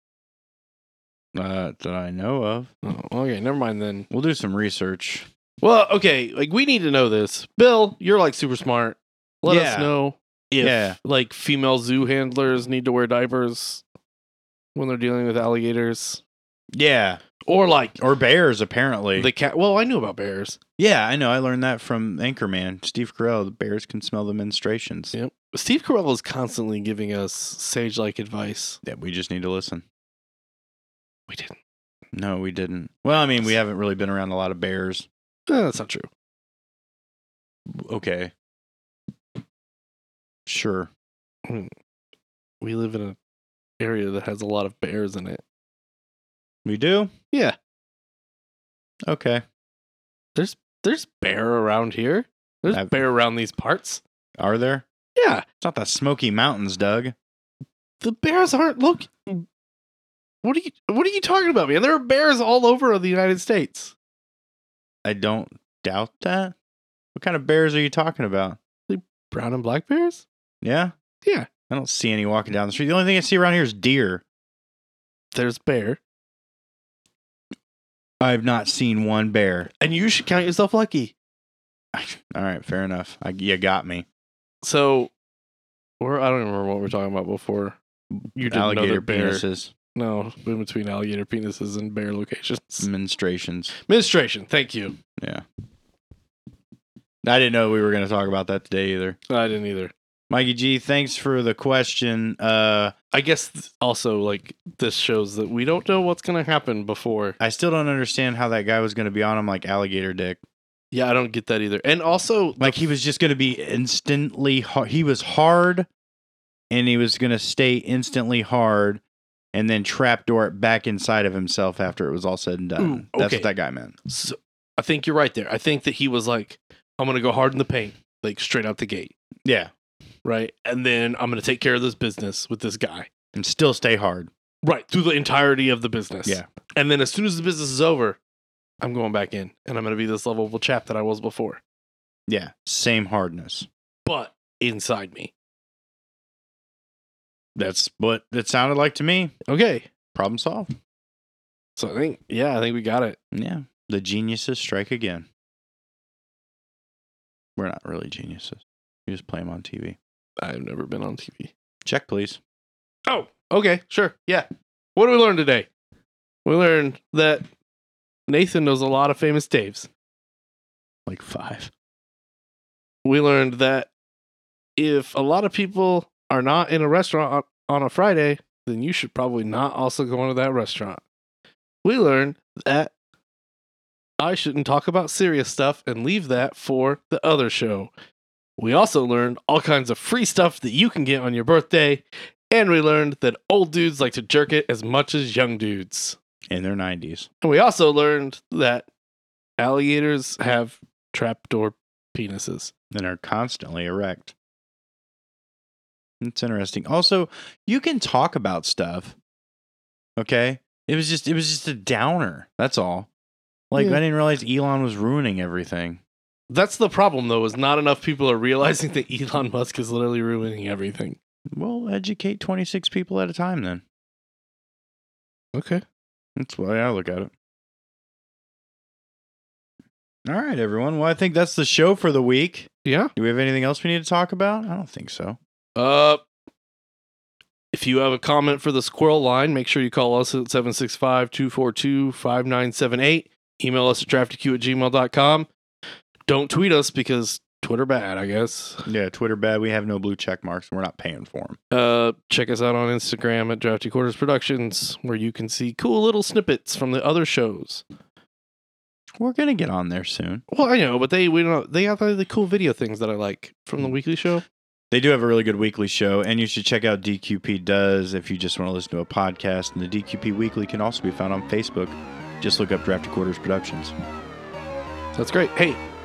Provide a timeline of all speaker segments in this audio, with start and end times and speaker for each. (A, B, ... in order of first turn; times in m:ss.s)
0:01.3-0:02.7 A
0:02.8-0:04.1 B
0:04.1-0:05.3 A
0:05.6-0:13.8 B
0:09.4-0:09.9 A
0:10.6-0:11.0 A
0:14.7-0:16.2 B
0:16.7-0:17.2 A
0:17.4-0:18.0 B
0:18.0-0:19.3 A
0:19.2-0:20.6 B
0:20.8-0:25.1 A
0:25.1-0:28.8 B
0:28.8-0:29.8 A
0:31.3-0:31.5 B
0:32.1-0:35.1 A
0:35.5-0:36.1 B
0:37.7-0:38.3 A
0:40.5-0:40.9 A
0:41.5-0:41.7 B
0:42.6-0:43.2 B
0:43.8-0:45.4 B
0:46.6-0:47.1 A
0:49.0-0:49.4 A
0:50.3-0:54.0 B
0:54.4-0:54.8 A
0:55.2-0:55.4 B
0:55.6-0:57.1 A
0:58.0-0:59.5 B
1:00.4-1:03.9 B
1:05.0-1:06.5 A
1:07.1-1:08.6 A
1:08.9-1:10.2 B
1:10.6-1:10.9 A
1:11.7-1:14.2 A
1:15.3-1:16.0 B
1:18.2-1:19.7 A
1:19.8-1:21.1 B
1:21.9-1:24.0 A
1:24.6-1:25.1 B
1:26.0-1:27.8 B
1:28.3-1:32.9 B
1:28.4-1:29.7 A
1:32.8-1:33.7 A
1:33.8-1:35.0 B
1:35.2-1:35.4 A
1:37.2-1:39.2 A
1:39.3-1:39.9 B
1:40.3-1:42.9 A
1:43.1-1:47.4 B
1:47.4-1:50.4 A
1:50.9-1:52.8 B
1:52.6-1:55.9 A
1:56.7-1:59.0 A
1:59.5-2:03.9 A
2:02.8-2:03.5 B
2:04.0-2:09.1 B
2:09.4-2:09.7 A
2:10.2-2:13.1 B
2:13.3-2:14.3 A
2:14.6-2:18.2 B
2:18.8-2:21.6 B
2:22.3-2:23.7 A
2:24.0-2:25.3 B
2:27.6-2:29.3 A
2:29.5-2:29.9 B
2:30.1-2:30.7 A
2:31.8-2:33.2 B
2:33.3-2:35.2 A
2:37.6-2:40.0 A
2:40.4-2:41.5 B
2:41.8-2:42.4 A
2:43.1-2:45.7 B
2:46.4-2:47.4 B
2:48.3-2:49.9 B
2:51.1-2:51.7 A
2:53.0-2:53.9 B
2:54.8-3:01.0 B
3:01.8-3:02.9 B
3:04.2-3:07.9 B
3:08.6-3:16.2 B
3:16.5-3:17.3 A
3:17.4-3:18.9 B
3:19.6-3:22.7 B
3:22.9-3:24.3 A
3:26.2-3:29.1 A
3:30.2-3:33.1 A
3:33.7-3:36.0 A
3:36.5-3:41.2 B
3:41.5-3:43.8 A
3:45.5-3:45.8 B
3:46.4-3:47.3 A
3:50.2-3:55.4 A
3:52.8-3:53.1 B
3:55.8-3:56.2 B
3:57.7-4:05.5 B
4:06.3-4:08.8 B
4:08.8-4:11.6 A
4:11.7-4:17.8 B
4:19.2-4:20.4 A
4:20.5-4:24.4 B
4:24.9-4:33.9 A
4:35.1-4:35.8 B